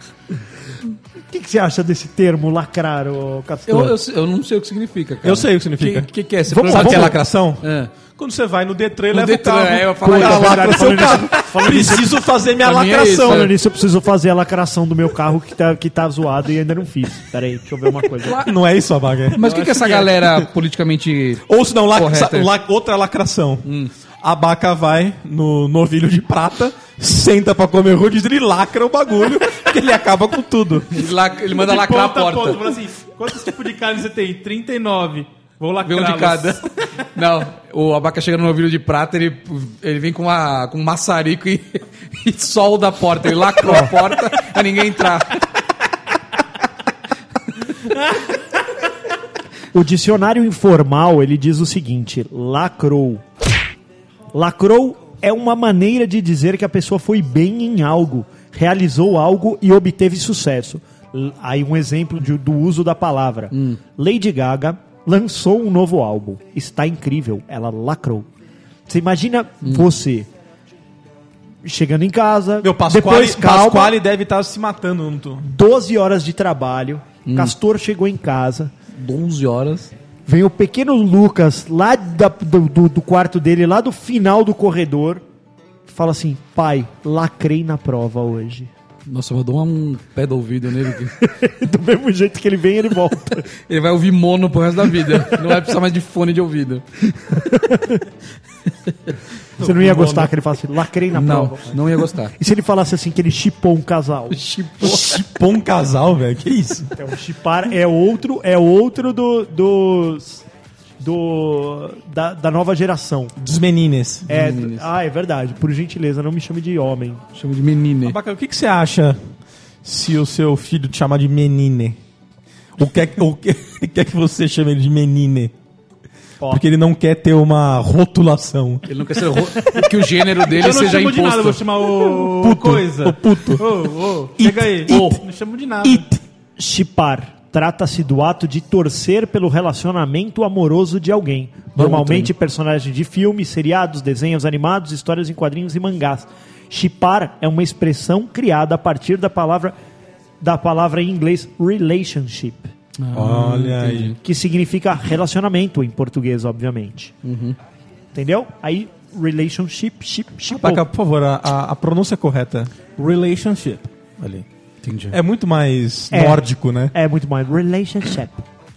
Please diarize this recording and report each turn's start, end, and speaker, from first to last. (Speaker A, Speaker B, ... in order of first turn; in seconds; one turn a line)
Speaker A: 1.3-3.9
Speaker B: 3.7-7.9
Speaker C: 5.2-7.6
Speaker A: 6.7-7.1
Speaker C: 8.2-13.5
Speaker B: 9.1-10.9
Speaker A: 10.0-12.2
Speaker B: 12.6-13.5
Speaker A: 13.2-18.4
Speaker B: 18.2-18.5
Speaker C: 18.4-19.4
Speaker B: 19.4-22.5
Speaker D: 19.4-20.1
Speaker C: 21.5-23.6
Speaker B: 23.6-23.9
Speaker C: 24.2-31.0
Speaker B: 30.9-32.7
Speaker D: 31.5-36.6
Speaker B: 35.8-36.6
Speaker B: 37.1-45.4
Speaker A: 43.6-43.9
Speaker A: 49.7-53.2
Speaker A: 54.3-68.3
Speaker B: 63.5-63.8
Speaker A: 68.9-70.3
Speaker A: 71.6-74.0
Speaker C: 72.6-75.5
Speaker A: 75.4-78.7
Speaker B: 77.2-77.5
Speaker B: 79.0-79.9
Speaker A: 80.2-85.2
Speaker A: 85.9-88.7
Speaker B: 89.1-91.1
Speaker A: 91.2-93.5
Speaker B: 93.7-96.8
Speaker A: 94.8-95.6
Speaker A: 97.3-98.0
Speaker A: 99.6-105.0
Speaker D: 99.6-100.3
Speaker B: 101.1-102.3
Speaker B: 104.3-105.2
Speaker C: 104.8-106.9
Speaker A: 107.0-110.4
Speaker A: 111.0-113.3
Speaker C: 113.4-114.3
Speaker B: 114.3-114.9
Speaker A: 114.3-117.2
Speaker B: 117.3-118.2
Speaker C: 118.0-119.2
Speaker C: 119.8-122.0
Speaker C: 122.8-125.5
Speaker C: 126.5-128.8
Speaker B: 128.9-131.6
Speaker D: 130.4-136.1
Speaker C: 132.2-133.6
Speaker C: 134.4-135.2
Speaker B: 134.9-135.1
Speaker C: 135.8-136.2
Speaker A: 136.6-149.8
Speaker B: 141.8-142.3
Speaker A: 150.4-152.7
Speaker B: 153.0-154.2
Speaker C: 153.1-154.2
Speaker A: 154.2-157.1
Speaker B: 157.2-157.6
Speaker A: 158.1-160.8
Speaker C: 160.4-162.7
Speaker D: 162.9-163.9
Speaker C: 164.2-164.4
Speaker B: 164.8-165.2
Speaker C: 165.1-166.9
Speaker A: 166.1-168.4